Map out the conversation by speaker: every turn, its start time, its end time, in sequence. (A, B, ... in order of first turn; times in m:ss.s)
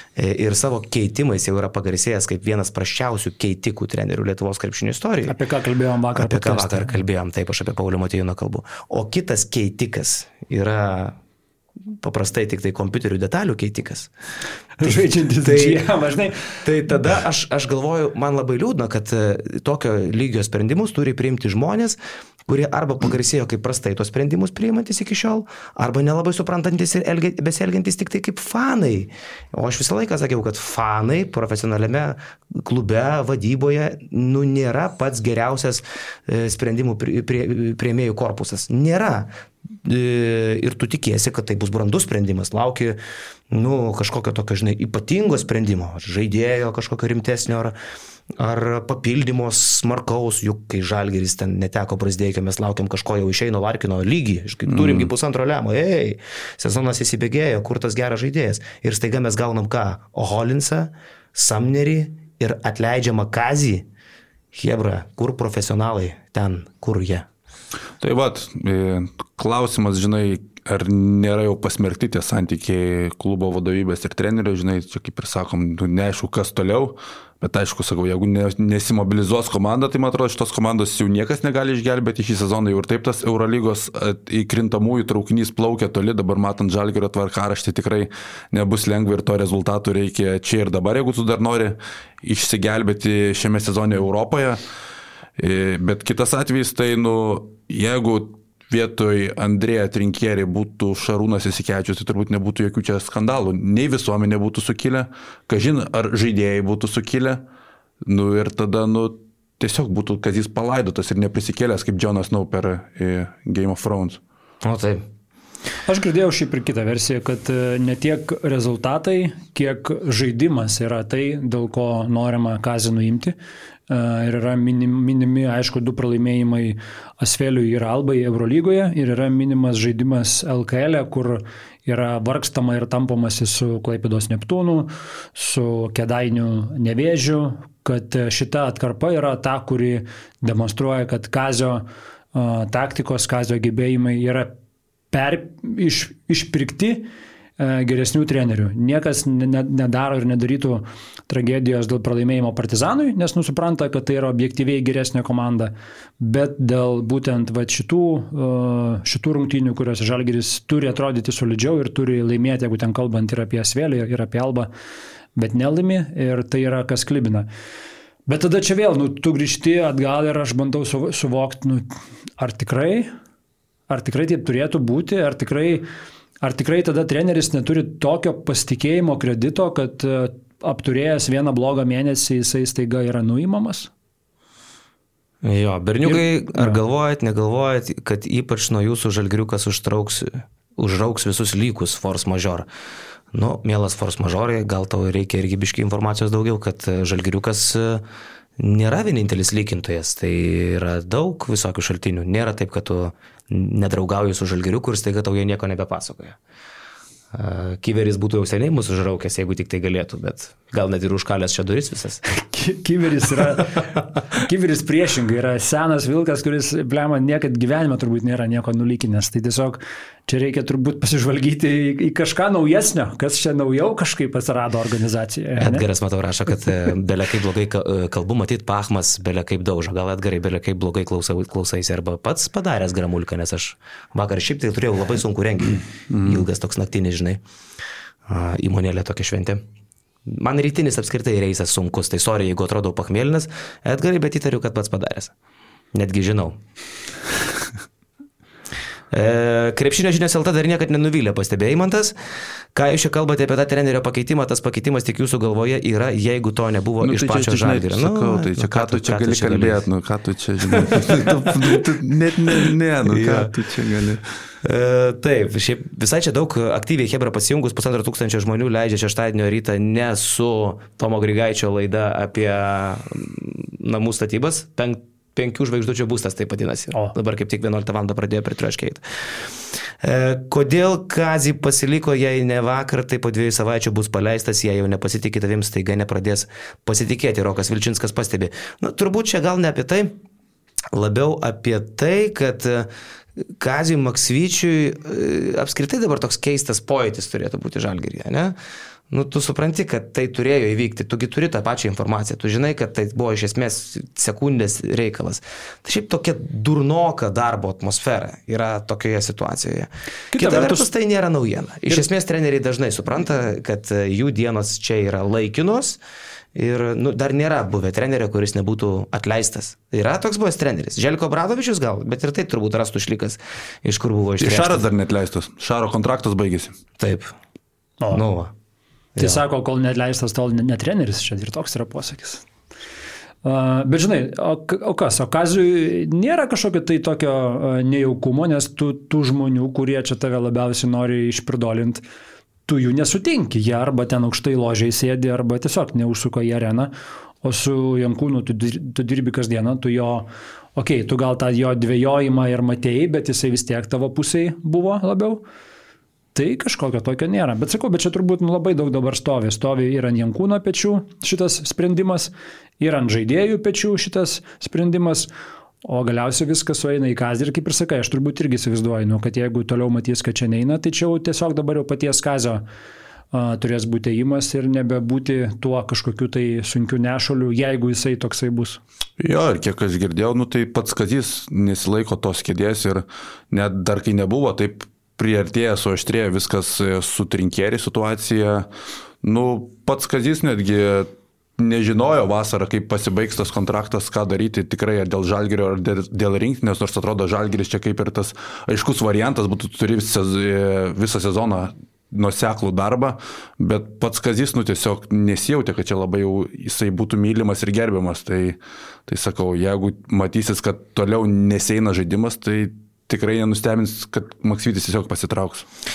0:00.2-0:05.3 A
0:05.3-0:07.0 B
0:06.1-0:11.2 A
0:12.0-0:14.1 A
0:14.8-0:16.6 B
0:14.9-0:15.9 A
0:16.6-0:39.3 A
0:39.8-0:43.0 A
0:43.5-0:47.7 A
0:48.4-1:03.8 A
0:54.7-0:55.1 C
1:04.5-1:07.3 A
1:08.0-1:34.6 C
1:35.4-1:47.4 C
1:48.0-1:54.2 C
1:54.6-1:55.0 A
1:55.9-2:03.3 B
2:03.9-2:24.5 B
2:25.1-2:27.1 B
2:27.6-2:44.7 B
2:45.4-2:47.5 B
2:48.3-2:51.9 B
2:52.4-2:53.1 B
2:53.9-2:55.9 B
2:56.4-3:03.9 B
3:05.4-3:12.7 A
3:06.0-3:06.8 B
3:13.3-3:18.0 A
3:18.6-3:26.4 A
3:27.3-3:32.2 A
3:32.3-3:45.8 B
3:45.6-3:57.4 A
3:56.1-3:56.4 C
3:58.3-3:59.6 A
4:00.3-4:05.3 A
4:05.9-4:06.6 A
4:09.1-4:12.1 A
4:12.7-4:19.8 A
4:17.0-4:24.2 C
4:20.7-4:21.8 A
4:22.5-4:23.5 A
4:24.6-4:50.1 A
4:50.9-4:52.9 A
4:53.6-4:58.6 A
4:59.1-5:16.0 A
5:10.3-5:10.9 B
5:16.5-5:24.8 A
5:24.4-5:26.8 C
5:27.0-5:27.3 A
5:28.1-5:28.5 A
5:29.2-5:29.4 A
5:29.2-5:32.4 B
5:33.4-5:42.0 B
5:42.7-5:55.4 B
5:56.3-6:05.3 B
6:05.8-6:12.6 B
6:13.3-6:18.8 B
6:19.2-6:28.7 C
6:29.2-6:55.6 C